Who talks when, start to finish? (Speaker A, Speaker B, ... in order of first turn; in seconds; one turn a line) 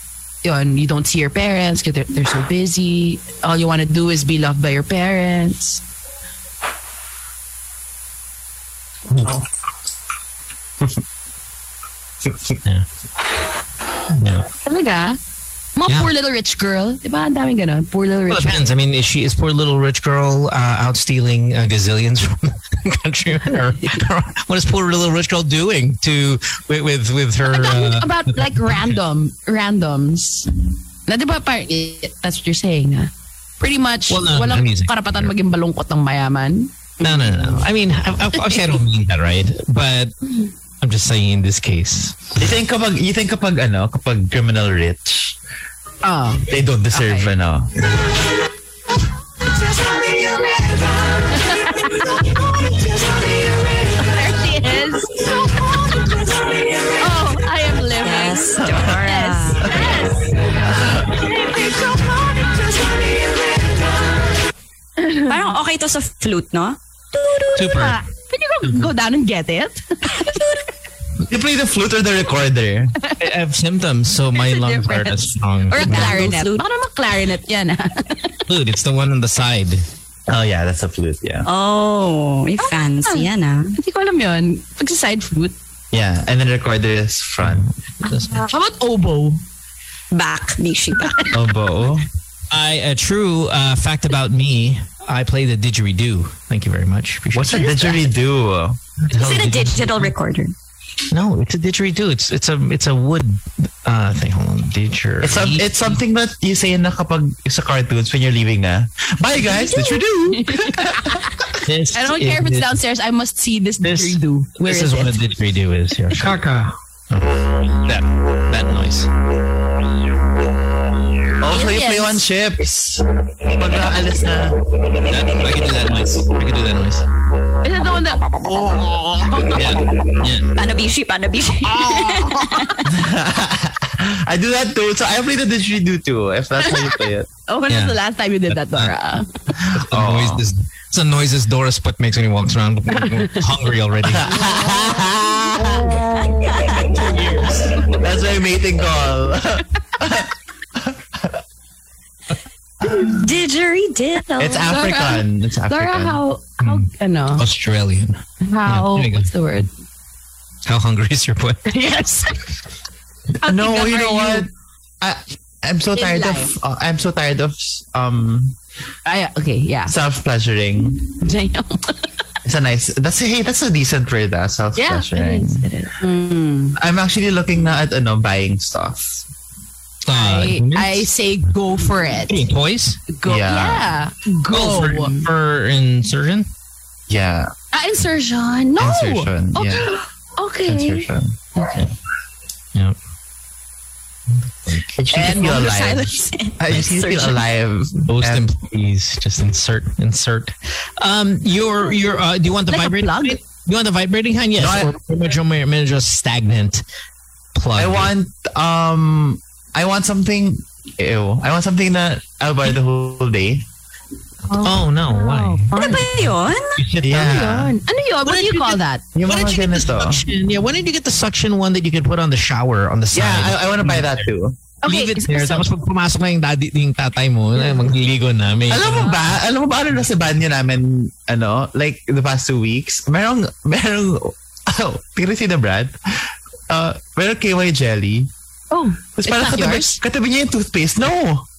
Speaker A: 0.4-5.8
Speaker B: 14.1-14.5
Speaker A: 14.6-15.2
Speaker A: 15.8-18.7
Speaker B: 15.9-16.1
Speaker B: 18.3-29.0
Speaker A: 27.4-36.8
Speaker B: 34.1-35.3
Speaker C: 37.0-37.6
Speaker B: 37.0-40.1
Speaker A: 38.3-38.7
Speaker B: 40.8-42.3
Speaker D: 42.4-45.4
Speaker A: 46.0-47.3
Speaker D: 46.5-47.7
Speaker A: 49.9-50.3
Speaker A: 51.3-53.3
Speaker A: 53.9-56.0
Speaker A: 57.0-63.6
Speaker C: 58.0-60.2
Speaker D: 60.7-61.2
Speaker A: 65.0-65.5
Speaker C: 65.2-67.5
Speaker A: 67.4-70.5
Speaker B: 67.5-68.0
Speaker C: 70.1-70.6
Speaker D: 71.3-73.0
Speaker B: 73.2-76.3
Speaker A: 74.3-78.4
Speaker C: 75.7-76.6
Speaker B: 78.5-79.8
Speaker D: 80.3-81.5
Speaker C: 81.4-83.8
Speaker A: 82.6-85.5
Speaker D: 85.9-87.7
Speaker B: 87.4-88.5
Speaker A: 88.3-89.4
Speaker C: 90.1-91.3
Speaker A: 91.0-91.3
Speaker D: 91.3-92.1
Speaker B: 92.5-98.0
Speaker D: 97.3-98.8
Speaker B: 99.0-100.1
Speaker C: 99.1-100.5
Speaker B: 101.1-106.0
Speaker D: 105.2-111.3
Speaker A: 109.4-115.2
Speaker B: 111.6-112.7
Speaker B: 113.8-119.1
Speaker D: 121.4-124.6
Speaker A: 121.4-122.2
Speaker B: 125.0-127.0
Speaker A: 127.6-128.7
Speaker D: 128.5-129.5
Speaker A: 129.2-129.7
Speaker B: 129.5-130.5
Speaker C: 130.6-132.9
Speaker A: 131.6-132.8
Speaker D: 132.9-137.3
Speaker A: 136.6-139.3
Speaker B: 137.7-138.0
Speaker B: 138.5-138.9
Speaker D: 139.6-140.4
Speaker B: 139.7-144.3
Speaker A: 142.9-143.5
Speaker D: 144.0-146.0
Speaker A: 144.3-147.9
Speaker C: 146.2-147.2
Speaker D: 146.9-151.4
Speaker D: 152.8-153.3
Speaker C: 152.9-154.7
Speaker D: 154.4-156.2
Speaker A: 154.6-157.4
Speaker B: 156.6-159.3
Speaker A: 158.4-159.7
Speaker B: 160.6-161.6
Speaker A: 161.7-162.5
Speaker A: 163.4-164.5
Speaker D: 163.4-168.6
Speaker A: 165.9-166.5
Speaker A: 169.0-169.9
Speaker D: 169.9-171.0
Speaker A: 171.2-172.1
Speaker D: 172.4-175.7
Speaker A: 174.8-175.9
Speaker C: 176.0-176.8
Speaker D: 176.8-179.2
Speaker B: 180.0-181.1
Speaker A: 180.1-182.4
Speaker B: 182.3-183.0
Speaker A: 183.1-185.2
Speaker D: 183.2-183.9
Speaker B: 184.5-186.5
Speaker D: 187.1-187.5
Speaker A: 187.7-191.8
Speaker D: 188.8-189.9
Speaker D: 190.6-191.8
Speaker D: 194.7-198.5
Speaker A: 195.1-197.3
Speaker B: 198.0-206.8
Speaker A: 202.7-203.4
Speaker D: 204.6-204.9
Speaker B: 207.5-208.1
Speaker D: 207.8-213.7
Speaker A: 214.5-216.1
Speaker B: 214.6-217.7
Speaker C: 215.7-216.8
Speaker D: 217.0-217.7
Speaker A: 217.1-219.0
Speaker B: 218.2-224.3
Speaker D: 219.1-220.2
Speaker D: 223.1-224.6
Speaker A: 224.8-225.7
Speaker B: 224.8-229.2
Speaker D: 228.7-238.3
Speaker A: 228.8-229.2
Speaker A: 238.7-240.0
Speaker D: 239.2-241.5